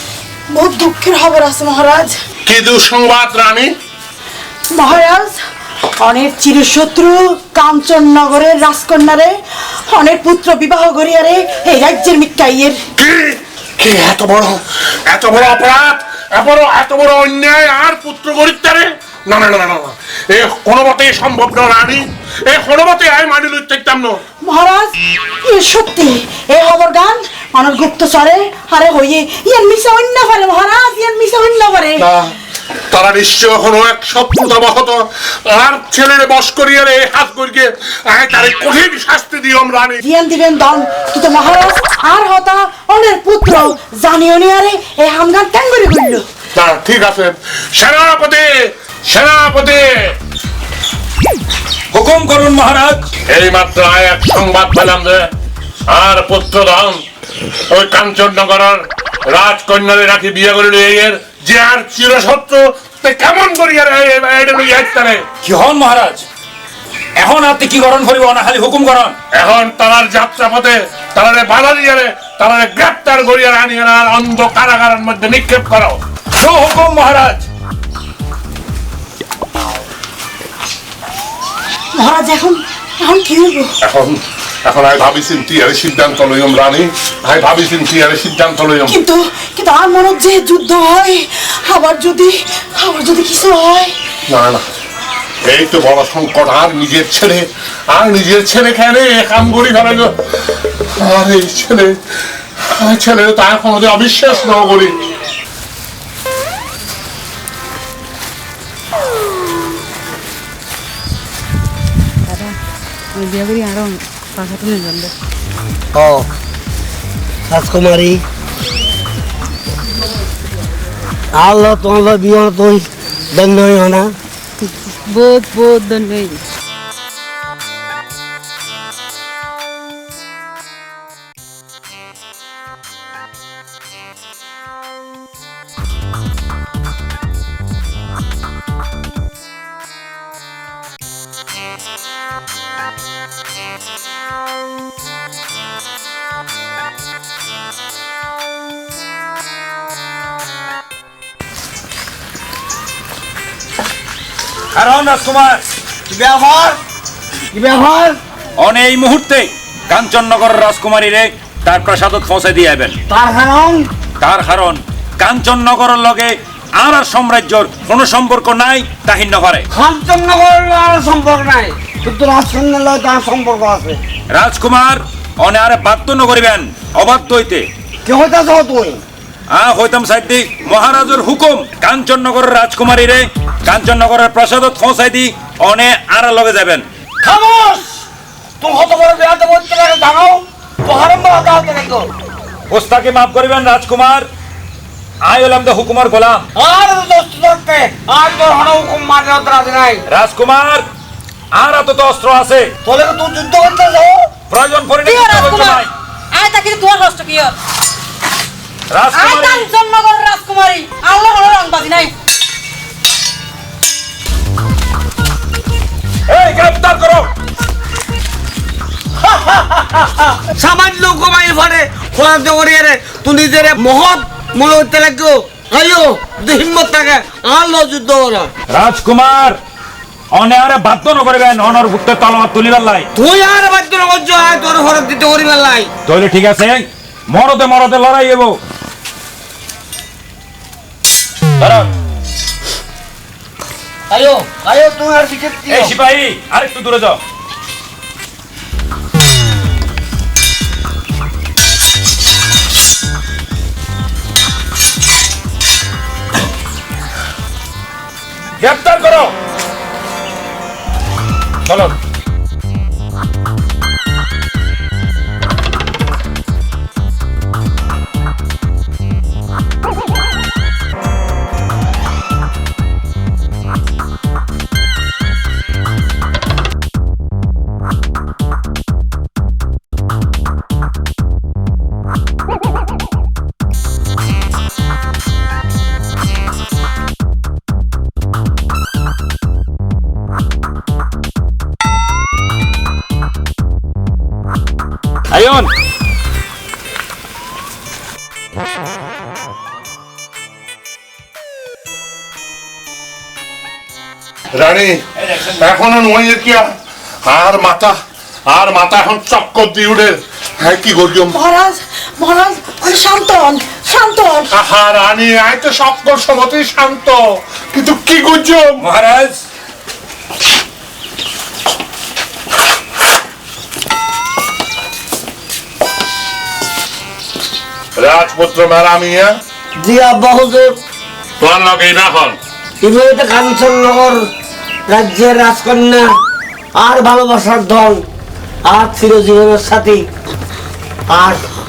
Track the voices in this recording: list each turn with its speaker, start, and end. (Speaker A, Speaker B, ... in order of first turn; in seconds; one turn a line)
Speaker A: 0.5-2.2
Speaker B: 2.5-3.7
Speaker A: 4.7-5.4
Speaker A: 6.0-12.8
Speaker B: 13.0-24.2
Speaker A: 24.4-32.1
Speaker B: 32.0-32.3
Speaker B: 32.9-40.0
Speaker A: 40.0-46.2
Speaker B: 46.5-50.1
Speaker C: 51.9-53.1
Speaker B: 53.3-55.3
Speaker B: 55.9-57.0
Speaker B: 57.7-65.2
Speaker C: 65.4-66.3
Speaker C: 67.2-69.2
Speaker B: 69.3-76.0
Speaker C: 76.4-77.5
Speaker A: 81.9-83.8
Speaker B: 83.8-89.0
Speaker A: 88.9-93.9
Speaker B: 94.3-94.6
Speaker B: 95.5-100.1
Speaker B: 100.8-102.0
Speaker B: 102.8-105.0
Speaker D: 112.3-112.5
Speaker D: 113.1-115.1
Speaker E: 115.9-116.3
Speaker E: 117.5-118.2
Speaker E: 121.3-124.1
Speaker D: 125.0-126.4
Speaker C: 154.7-155.6
Speaker E: 156.1-156.8
Speaker E: 157.5-158.2
Speaker C: 158.6-162.9
Speaker E: 163.1-163.9
Speaker C: 164.2-169.7
Speaker E: 169.7-174.0
Speaker C: 174.3-177.7
Speaker E: 178.0-179.0
Speaker C: 179.5-186.9
Speaker E: 187.2-188.1
Speaker E: 188.6-192.1
Speaker C: 192.7-194.3
Speaker C: 195.2-196.5
Speaker E: 196.6-200.1
Speaker C: 200.1-200.9
Speaker C: 201.5-202.7
Speaker E: 202.8-204.3
Speaker C: 204.5-205.9
Speaker D: 205.1-205.8
Speaker D: 206.3-207.6
Speaker C: 208.9-209.7
Speaker D: 209.2-212.1
Speaker C: 216.3-217.3
Speaker E: 219.4-228.5
Speaker C: 228.7-229.6
Speaker C: 230.3-233.1
Speaker E: 233.1-235.9
Speaker C: 236.1-238.6
Speaker C: 241.6-241.9
Speaker E: 244.1-245.9
Speaker C: 245.7-247.2
Speaker C: 258.6-259.4
Speaker C: 261.6-262.0
Speaker C: 295.3-295.7
Speaker B: 304.5-306.7
Speaker B: 307.3-307.9
Speaker B: 308.5-311.4
Speaker A: 311.3-314.5
Speaker B: 314.5-318.8
Speaker C: 318.8-319.4
Speaker B: 328.0-329.3
Speaker E: 329.8-330.8
Speaker B: 331.4-332.4
Speaker E: 332.8-334.2
Speaker E: 334.9-336.1
Speaker E: 336.8-338.0
Speaker E: 338.6-340.1
Speaker E: 341.1-341.4